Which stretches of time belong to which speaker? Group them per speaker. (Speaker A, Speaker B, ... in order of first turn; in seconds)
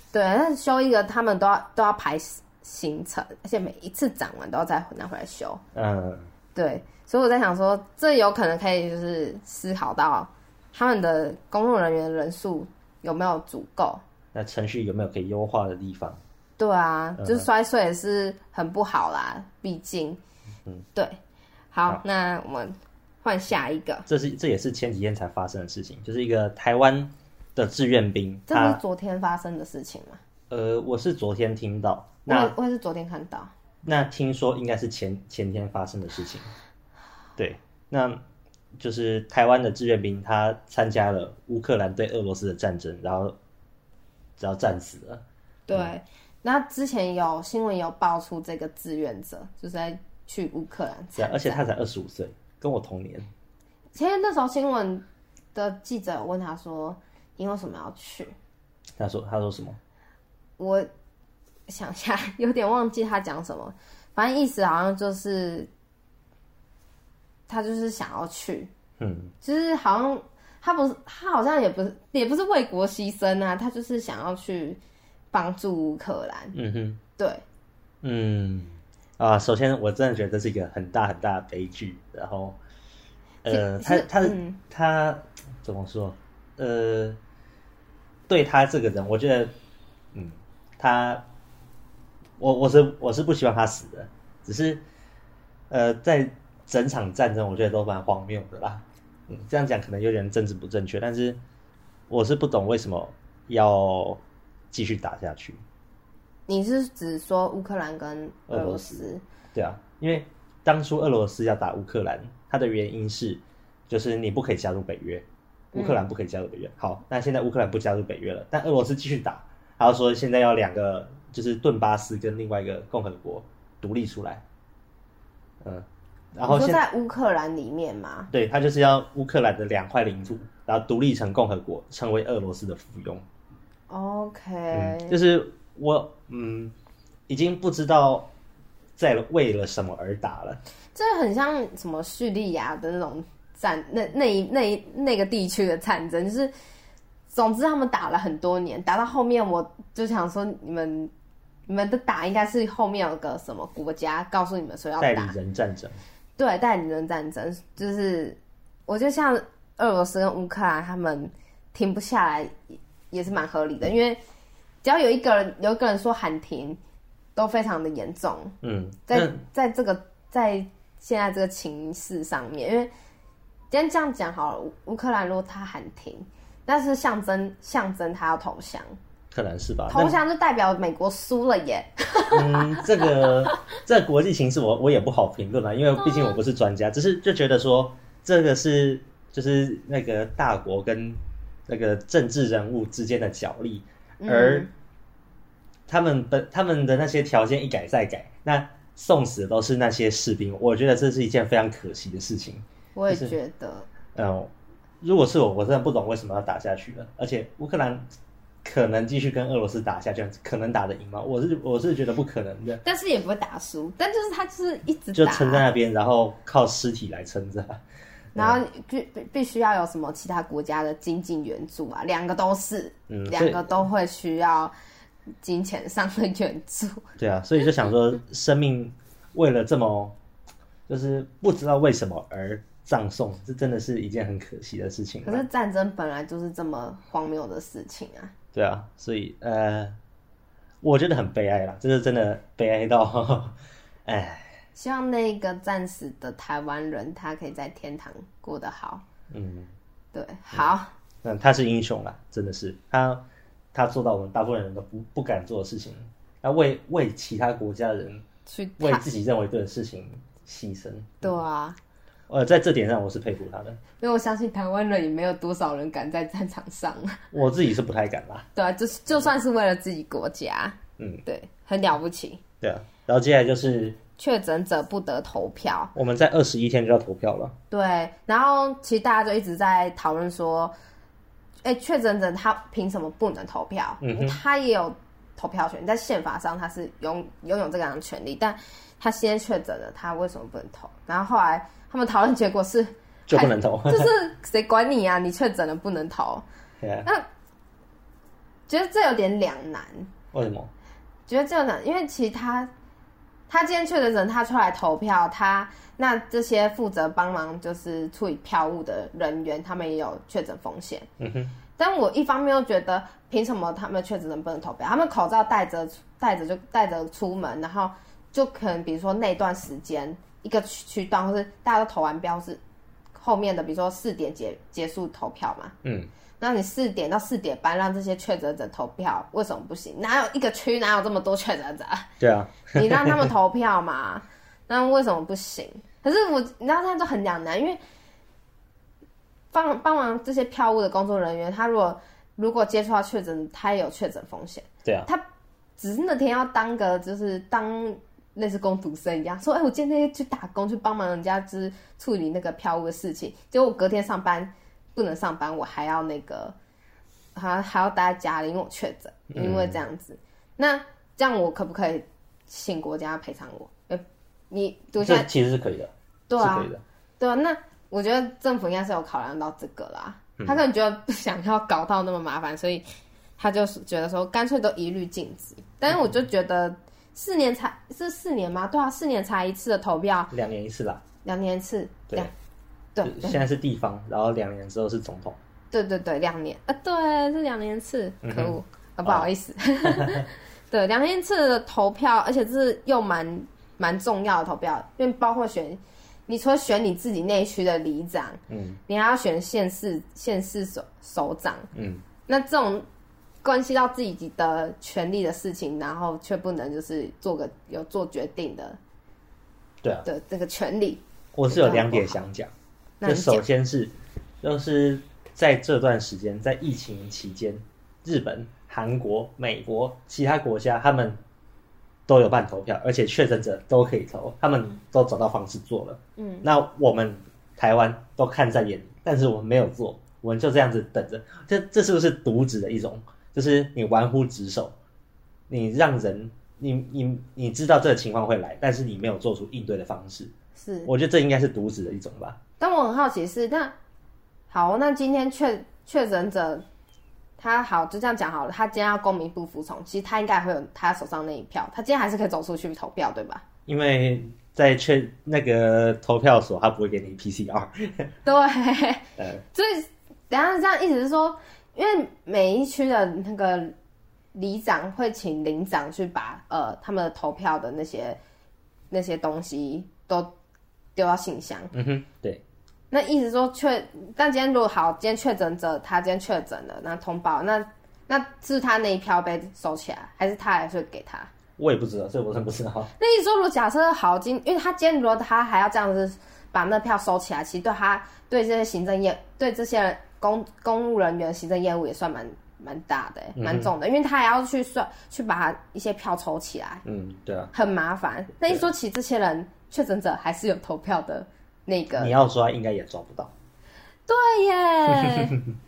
Speaker A: 0.1-5.6, 6.5-14.0, 16.6-20.2, 21.7-24.1, 28.5-30.2, 32.3-33.5, 45.7-51.6, 53.9-55.0, 55.5-58.3, 60.6-60.9, 61.7-65.7, 67.5-68.7, 69.4-74.8, 75.3-76.5, 77.2-77.4, 83.5-84.6, 106.5-109.2, 115.7-116.0, 126.5-128.3, 133.9-135.2, 140.9-146.5, 147.3-151.1, 151.7-155.3, 156.4-164.2, 164.8-166.8, 167.3-168.6, 169.1-172.9, 173.7-179.0, 179.9-183.3, 186.0-186.4, 194.2-194.7, 202.9-203.9, 212.8-215.7, 218.3-224.7, 225.4-227.0, 235.2-238.3, 244.7-249.0, 250.1-250.9, 258.5-259.0, 261.2-261.8, 264.0-267.2, 268.6-272.4, 274.2-275.9, 277.7-280.7, 281.6-296.4, 298.7-300.1, 301.3-302.7, 303.5-311.1, 311.8-322.6, 323.1-325.7, 326.4-332.1, 332.7-337.8, 339.5-345.2, 345.8-356.5, 357.3-365.3, 366.3-372.8, 373.4-380.3, 381.2-382.3, 382.9-383.4, 385.7-401.7, 402.3-402.9, 403.4-408.8, 410.0-412.2, 413.0-413.4, 426.2-426.4, 440.6-440.9, 442.6-443.7, 444.5-446.6, 447.4-453.4, 458.2-463.7, 464.3-468.2, 468.9-470.3, 470.9-471.7, 472.9-481.3, 483.0-496.8, 497.5-502.1, 504.1-505.4
Speaker B: 5.7-6.3, 14.3-16.2, 17.2-17.4, 24.1-28.8, 30.5-32.5, 33.8-36.5, 37.4-38.2, 38.8-43.4, 44.4-45.9, 51.2-53.3, 59.0-59.8, 69.0-69.3, 76.5-77.0, 78.0-82.6, 83.4-87.2, 88.3-89.5, 90.1-91.2, 92.4-94.8, 95.7-101.4, 102.1-105.6, 108.5-124.4, 125.6-126.8, 128.3-133.2, 134.7-136.7, 137.3-138.3, 139.0-140.6, 155.0-156.0, 168.6-169.4, 179.3-180.2, 182.3-194.7, 195.9-203.3, 204.1-208.0, 208.6-212.8, 215.1-217.8, 218.3-218.6, 223.1-223.8, 227.2-230.2, 230.9-235.4, 238.5-239.9, 240.8-244.5, 249.3-249.7, 251.2-253.2, 253.7-258.2, 258.8-261.3, 262.3-263.8, 267.3-268.5, 272.6-274.0, 275.9-277.5, 284.0-284.4, 293.3-294.1, 296.8-297.1, 300.3-300.7, 311.2-311.5, 325.8-326.1, 332.2-333.3, 359.3-359.8, 365.0-366.8, 380.3-381.0, 383.0-385.4, 388.2-389.3, 389.8-390.2, 398.5-398.8, 401.7-402.0, 411.3-412.5, 413.0-421.2, 422.1-434.7, 435.5-440.3, 440.9-442.4, 453.7-458.1, 471.7-472.4, 481.6-482.9, 493.4-493.7, 496.8-497.5, 502.0-503.3, 505.1-505.3